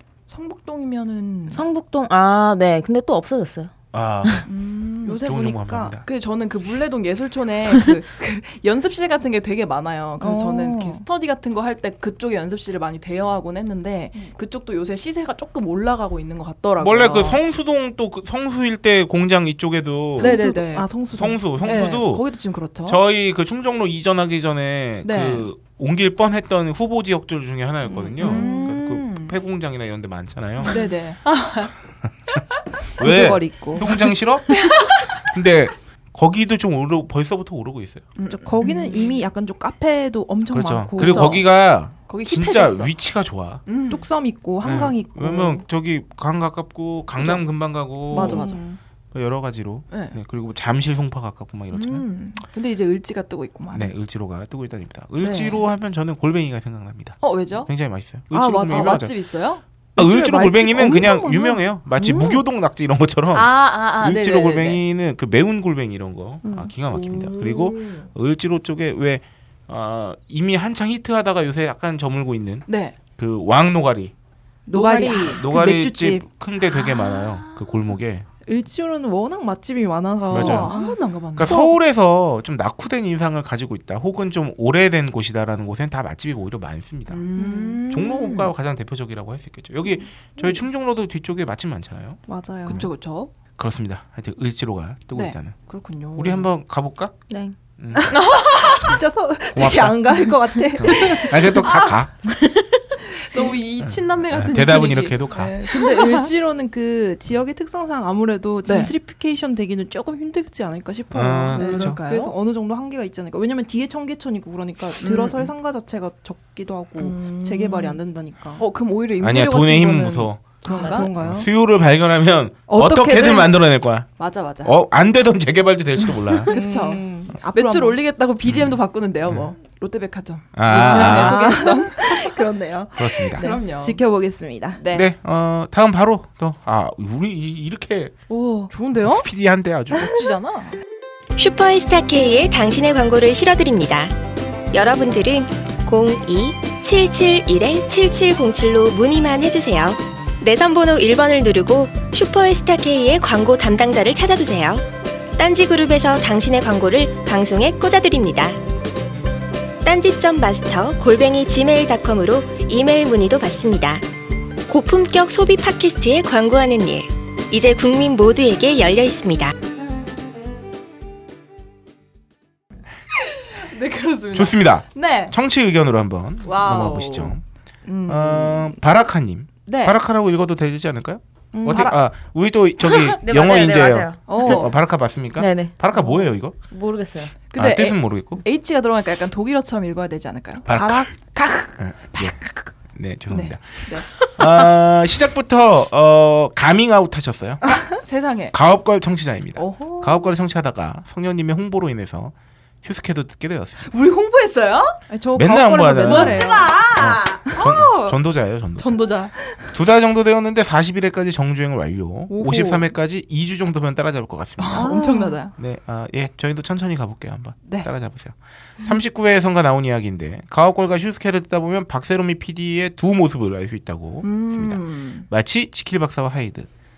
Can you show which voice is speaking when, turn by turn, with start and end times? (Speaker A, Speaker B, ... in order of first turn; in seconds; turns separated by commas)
Speaker A: 0.3-1.6, Speaker B: 1.5-3.7, Speaker C: 3.9-4.5, Speaker A: 4.5-5.2, Speaker D: 5.0-6.0, Speaker C: 5.2-6.0, Speaker A: 6.0-17.4, Speaker D: 10.2-11.0, Speaker C: 16.8-20.4, Speaker D: 20.2-21.8, Speaker A: 20.2-20.9, Speaker C: 21.1-22.2, Speaker A: 21.6-23.0, Speaker C: 22.9-30.8, Speaker A: 25.0-25.5, Speaker A: 27.9-29.4, Speaker D: 28.1-28.7, Speaker A: 30.6-31.7, Speaker C: 33.0-34.7, Speaker D: 33.0-34.1, Speaker A: 34.5-35.1, Speaker C: 35.2-38.1, Speaker A: 38.2-39.3, Speaker D: 38.3-41.4, Speaker C: 40.5-43.6, Speaker A: 41.0-41.3, Speaker A: 42.1-42.9, Speaker A: 43.7-44.1, Speaker D: 43.9-45.6, Speaker C: 44.6-48.5, Speaker A: 48.1-48.6, Speaker D: 48.1-48.8, Speaker C: 49.1-52.0, Speaker A: 49.9-50.1, Speaker A: 51.7-53.9, Speaker C: 53.7-59.1, Speaker A: 55.2-55.6, Speaker A: 57.2-57.7, Speaker A: 58.3-59.6, Speaker D: 60.0-61.6, Speaker C: 60.0-72.7, Speaker A: 62.0-62.4, Speaker A: 63.3-64.8, Speaker D: 66.5-66.7, Speaker A: 66.9-68.1, Speaker A: 72.7-73.0, Speaker C: 73.2-74.1, Speaker D: 74.7-76.3, Speaker B: 74.7-75.3, Speaker A: 74.9-75.3, Speaker C: 75.0-78.3, Speaker A: 76.8-77.7, Speaker D: 78.5-81.7, Speaker C: 80.3-80.7, Speaker A: 80.3-81.6, Speaker C: 81.3-87.3, Speaker A: 87.1-88.5, Speaker D: 87.4-87.8, Speaker C: 87.9-92.9, Speaker D: 92.3-92.8, Speaker A: 92.7-93.3, Speaker C: 93.6-95.6, Speaker A: 95.1-96.5, Speaker C: 96.1-97.1, Speaker B: 97.3-97.5, Speaker C: 97.8-98.1, Speaker D: 98.0-101.7, Speaker A: 98.1-99.0, Speaker C: 99.5-102.1, Speaker A: 101.5-102.0, Speaker B: 102.4-102.7, Speaker A: 103.1-106.3, Speaker C: 103.8-105.5, Speaker D: 105.3-118.6, Speaker A: 108.6-108.9, Speaker C: 111.1-112.0, Speaker A: 111.5-112.3, Speaker A: 115.0-115.5, Speaker A: 117.0-118.0, Speaker A: 118.6-121.1, Speaker C: 119.2-124.1, Speaker D: 120.6-121.5, Speaker D: 122.7-123.5, Speaker A: 124.2-124.7, Speaker C: 124.6-126.5, Speaker D: 126.4-128.0, Speaker A: 126.5-132.4, Speaker C: 128.4-128.8, Speaker C: 130.5-131.6, Speaker D: 130.7-134.8, Speaker C: 132.9-133.5, Speaker A: 133.4-134.0, Speaker A: 134.8-135.1, Speaker C: 134.9-138.1, Speaker D: 138.3-138.7, Speaker A: 138.7-139.3, Speaker C: 139.0-140.2, Speaker A: 139.9-140.8, Speaker E: 141.4-144.1, Speaker E: 144.7-154.9, Speaker E: 155.4-158.6, Speaker E: 159.8-164.0, Speaker E: 164.7-169.5, Speaker A: 173.5-175.3, Speaker C: 174.3-177.4, Speaker A: 176.4-178.8, Speaker C: 178.1-186.6, Speaker A: 179.7-180.0, Speaker D: 181.5-181.9, Speaker A: 181.7-181.9, Speaker A: 182.8-183.2, Speaker B: 183.2-184.3, Speaker A: 184.3-184.7, Speaker B: 185.4-185.7, Speaker B: 186.7-187.3, Speaker A: 187.5-190.7, Speaker C: 187.6-188.4, Speaker C: 190.7-191.1, Speaker D: 190.7-191.7, Speaker C: 191.8-192.4, Speaker A: 192.2-192.6, Speaker C: 192.9-197.7, Speaker A: 193.3-194.7, Speaker A: 197.7-198.6, Speaker C: 198.5-203.9, Speaker A: 199.6-200.3, Speaker A: 203.9-205.0, Speaker D: 205.1-207.5, Speaker C: 205.3-209.1, Speaker A: 206.0-208.2, Speaker A: 208.8-209.3, Speaker C: 209.7-214.9, Speaker A: 212.3-212.9, Speaker A: 214.6-215.5, Speaker D: 214.7-215.4, Speaker C: 215.6-226.7, Speaker A: 224.2-225.3